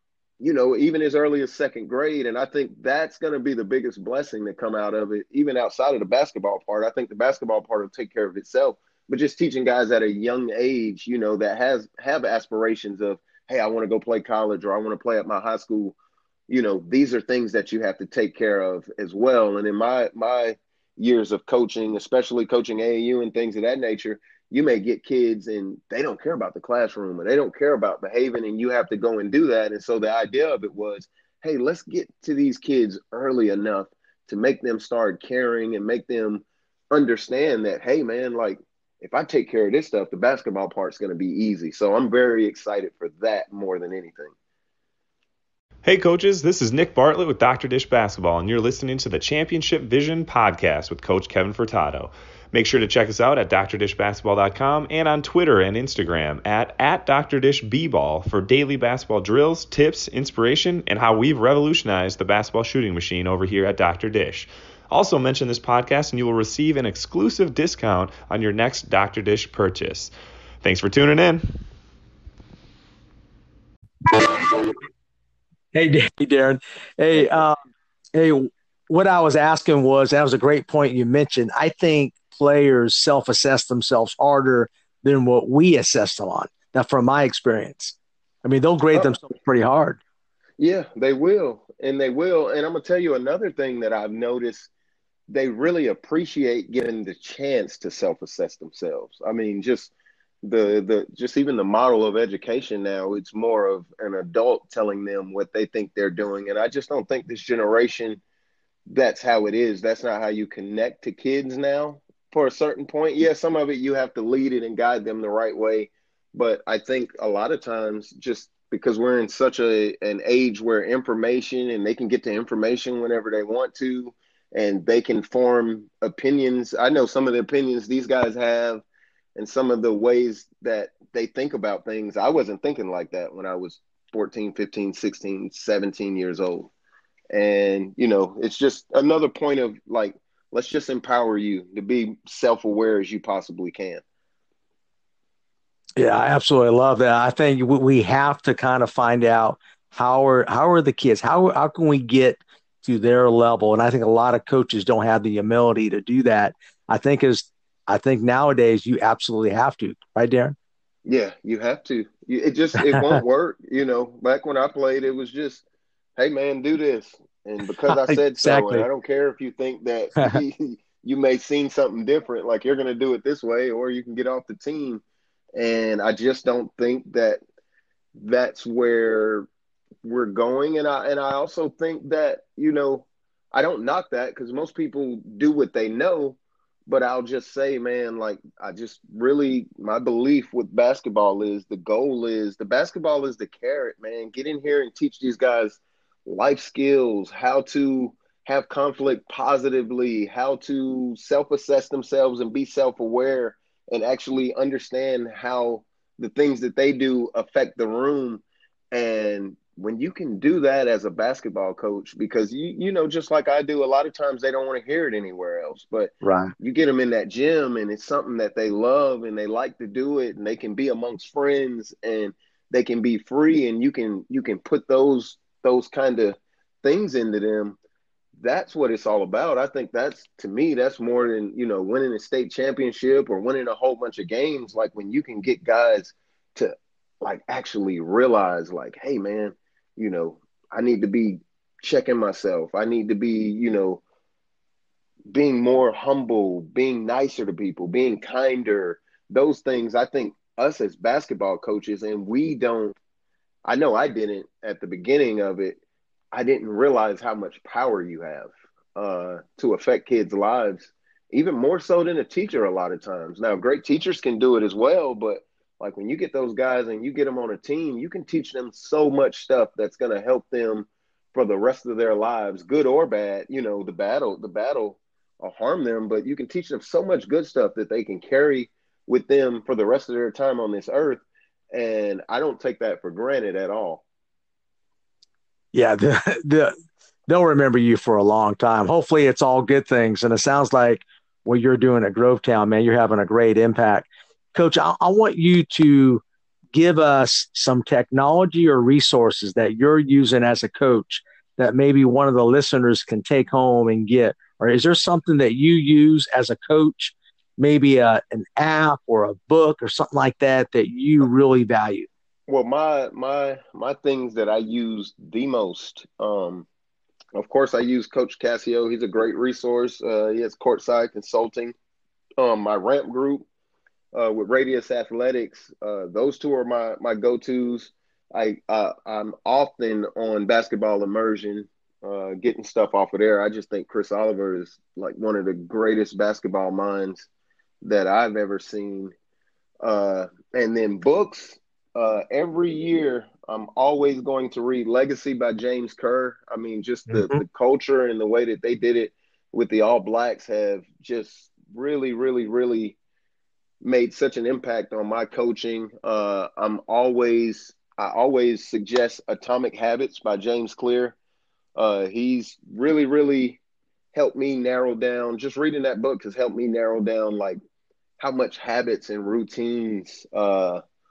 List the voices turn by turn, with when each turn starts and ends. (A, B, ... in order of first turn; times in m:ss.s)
0:00.4-0:16.0 A
0:16.5-0:44.3 A
0:45.8-1:11.5 B
1:14.1-1:14.7 C
1:15.7-1:17.6 C
1:18.2-1:30.0 C
1:30.6-1:34.7 A
1:35.3-1:39.9 A
1:40.4-1:48.2 A
1:48.9-2:08.8 A
2:09.4-2:16.7 A
2:17.3-2:24.0 A
2:26.0-2:40.6 C
2:41.0-2:45.6 A
2:42.8-2:43.2 C
2:46.2-2:55.0 A
2:47.9-2:48.9 C
2:55.6-2:57.4 A
2:58.2-2:59.5 A
3:00.0-3:47.8 A
3:36.2-3:36.5 C
3:48.4-4:04.0 A
4:05.3-4:13.0 A
4:13.6-4:15.8 A
4:16.3-4:44.0 A
4:45.7-4:46.8 C
4:47.3-4:56.2 C
4:56.7-5:12.1 C
5:12.5-5:16.7 A
5:17.4-5:21.7 A
5:22.4-5:23.5 A
5:24.1-5:37.3 A
5:37.8-5:39.1 A
5:39.8-5:53.0 A
5:47.1-5:47.4 C
5:53.8-6:01.2 A
6:01.8-6:03.6 A
6:04.1-6:07.6 A
6:08.2-6:10.8 A